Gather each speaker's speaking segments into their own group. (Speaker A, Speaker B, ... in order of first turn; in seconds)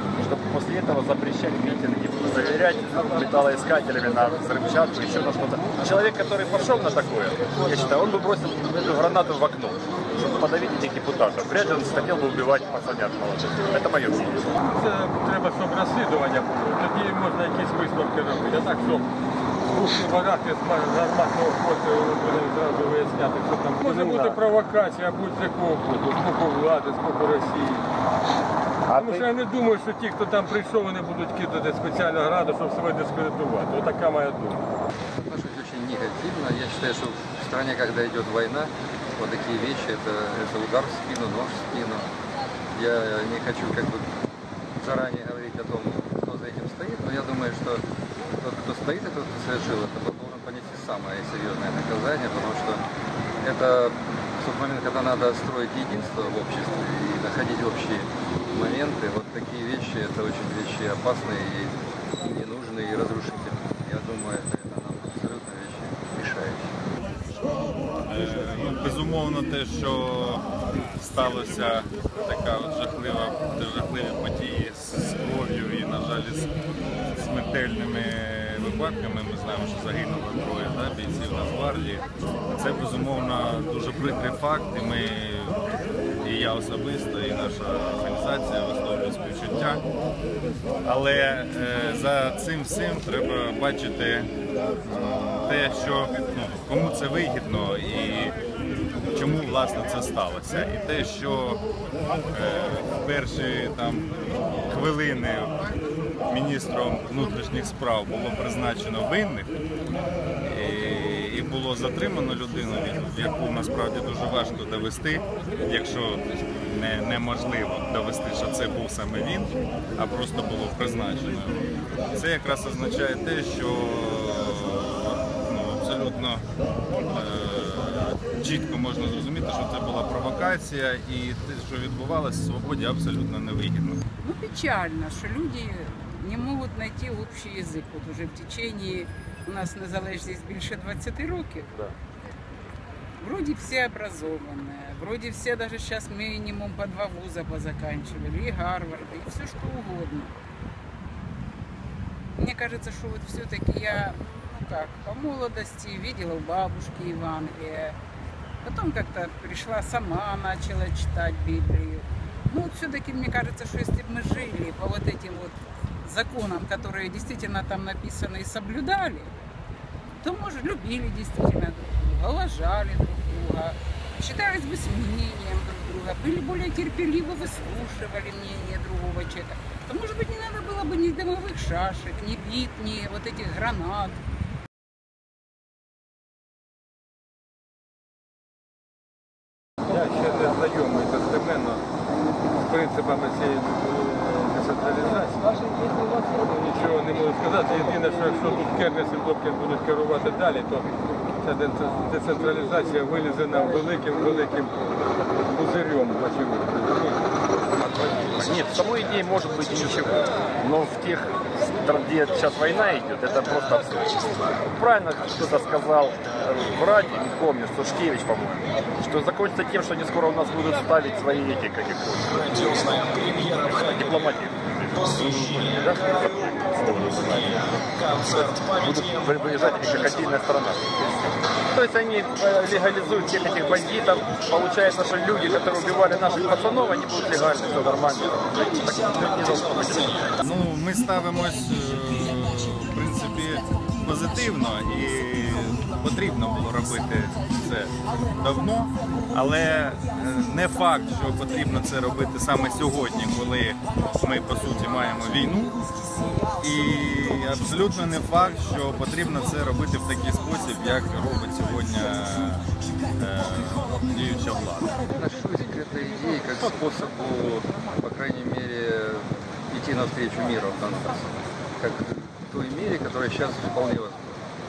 Speaker A: 0.2-14.5, 23.8-24.4, 28.9-29.2, 207.8-231.1, 231.7-240.3
Speaker B: 14.6-19.1, 19.7-27.9, 28.9-34.7, 189.9-191.9, 192.5-207.1
Speaker C: 35.2-42.1, 42.7-44.1, 44.8-47.8, 48.4-52.8, 53.4-66.7, 265.1-274.4
Speaker D: 68.1-76.5, 77.1-89.8, 90.8-94.3, 94.8-98.4, 99.1-101.6, 102.3-105.7, 106.3-109.5, 110.4-126.5, 127.1-134.0, 240.4-255.8, 256.6-265.0
Speaker E: 134.2-141.8, 143.2-150.4, 152.3-158.0, 158.6-169.3, 170.2-184.2